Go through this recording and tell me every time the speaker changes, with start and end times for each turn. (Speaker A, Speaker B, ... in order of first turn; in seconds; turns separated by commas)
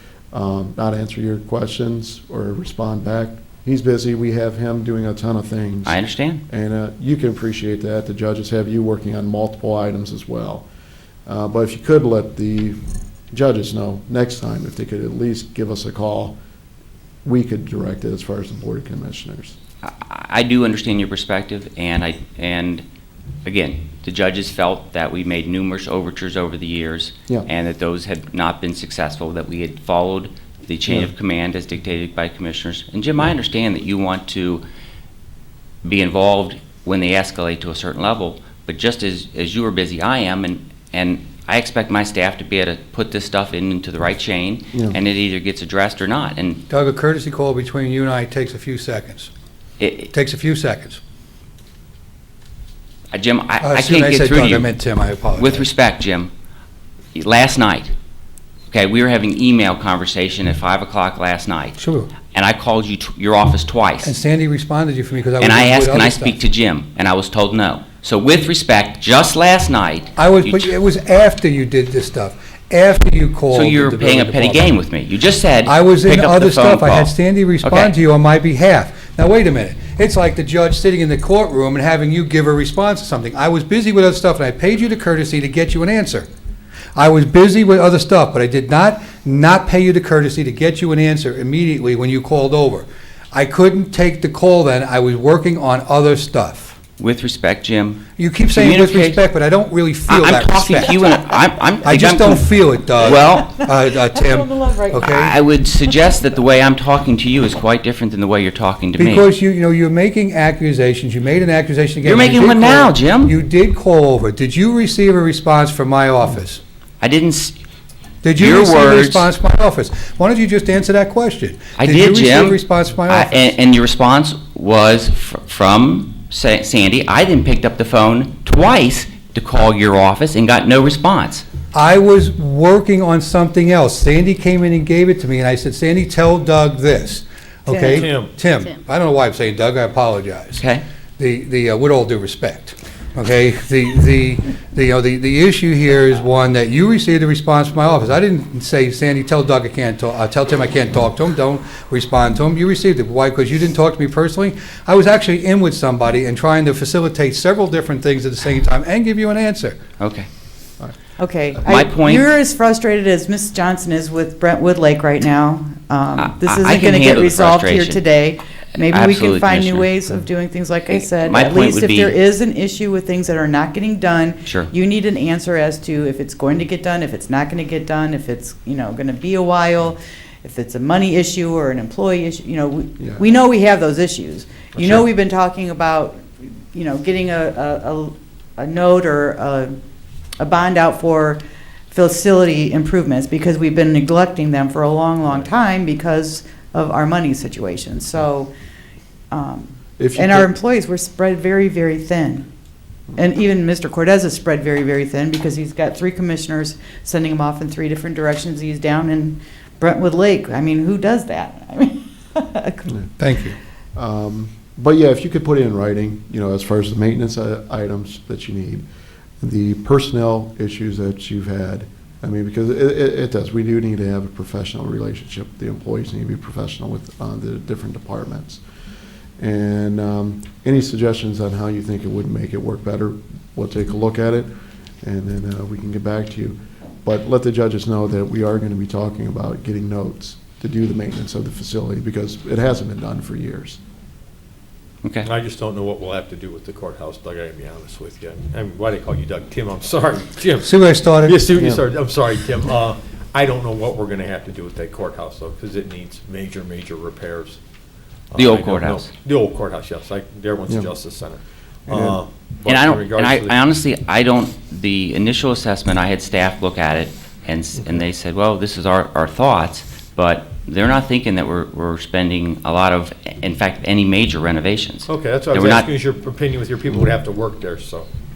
Speaker A: 0.3-10.7, Speaker B: 5.9-6.4, Speaker A: 11.3-12.8, Speaker A: 13.3-16.4, Speaker A: 17.2-19.6, Speaker B: 19.8-22.8, Speaker B: 23.4-34.6, Speaker B: 35.8-46.6, Speaker C: 46.7-49.3, Speaker B: 49.8-50.1, Speaker C: 50.1-51.0, Speaker B: 53.1-54.7, Speaker C: 53.6-55.7, Speaker B: 55.4-56.3, Speaker B: 57.1-57.9, Speaker B: 58.7-61.8, Speaker C: 61.8-62.1, Speaker B: 62.3-64.1, Speaker C: 64.0-66.4, Speaker B: 65.4-70.7, Speaker C: 70.2-74.7, Speaker B: 73.5-77.9, Speaker C: 75.7-86.3, Speaker C: 87.0-96.8, Speaker B: 97.0-99.2, Speaker C: 98.2-101.0, Speaker B: 100.1-103.5, Speaker C: 101.8-105.3, Speaker D: 103.0-105.8, Speaker B: 104.9-109.3, Speaker C: 109.0-116.6, Speaker B: 112.0-113.3, Speaker B: 117.0-117.6, Speaker C: 118.2-123.5, Speaker B: 118.4-119.3, Speaker B: 121.8-131.4, Speaker C: 131.7-140.7, Speaker D: 137.7-138.0, Speaker E: 137.7-138.3, Speaker B: 140.6-140.8, Speaker C: 141.2-159.8, Speaker B: 160.0-160.3, Speaker D: 161.2-189.7, Speaker B: 161.7-162.3, Speaker B: 166.2-168.0, Speaker B: 168.8-169.9, Speaker B: 170.9-172.2, Speaker B: 174.5-174.7, Speaker D: 190.4-191.4, Speaker D: 191.9-198.5, Speaker D: 199.3-202.5, Speaker A: 200.0-200.5, Speaker D: 203.2-213.0, Speaker C: 213.2-213.6, Speaker A: 214.0-218.8, Speaker A: 219.4-228.6, Speaker A: 229.4-234.5, Speaker A: 235.0-243.8, Speaker B: 245.0-245.3, Speaker E: 245.2-257.6, Speaker C: 250.6-251.4, Speaker A: 251.5-251.8, Speaker E: 258.3-263.6, Speaker B: 258.4-259.1, Speaker A: 261.9-262.2, Speaker B: 262.7-275.9, Speaker E: 275.1-278.1